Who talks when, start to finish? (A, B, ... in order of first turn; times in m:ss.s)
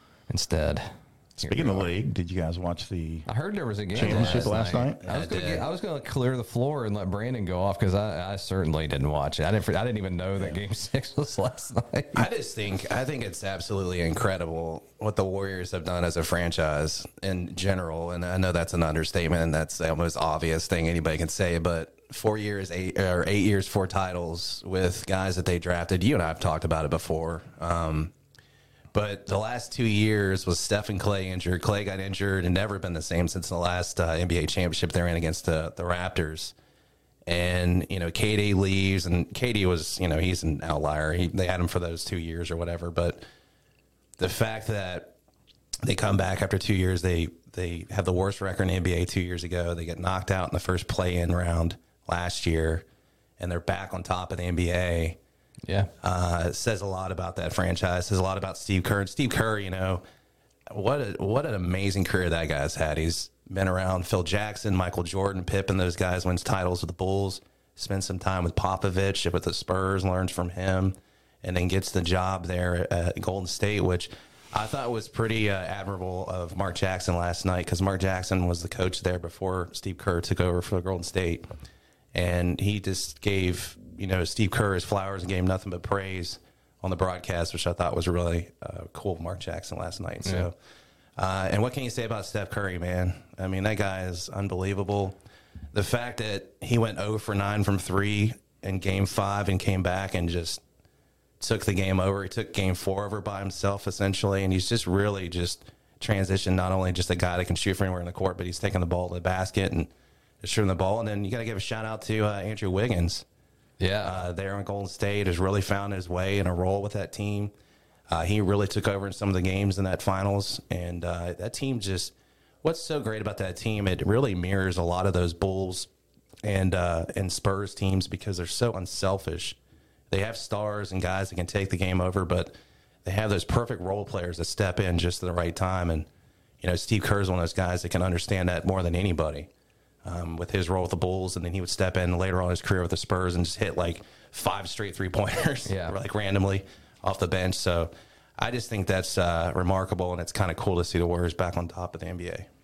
0:00.3-0:00.9 A
0:01.4-0:01.8 A
0:01.4-0:03.3 B
0:03.3-0:12.3 A
0:04.0-0:05.0 B
0:04.0-0:05.6 C
0:12.2-0:28.1 C
0:28.9-0:36.5 C
0:37.3-0:43.2 C
0:44.2-0:45.1 C
0:45.8-0:52.8 C
0:53.4-0:55.2 C
0:55.6-0:55.9 A
0:56.0-1:00.0 C
1:00.7-1:21.5 C
1:22.1-1:30.5 C
1:30.2-1:30.5 A
1:31.2-1:35.2 C
1:35.7-1:40.6 C
1:41.4-1:49.9 C
1:50.4-1:53.2 C
1:53.8-1:54.2 A
1:54.0-1:57.5 C
1:58.1-2:05.9 C
2:06.4-2:09.6 C
2:10.1-2:16.1 C
2:16.6-2:19.5 C
2:20.0-2:32.5 C
2:25.7-2:26.0 A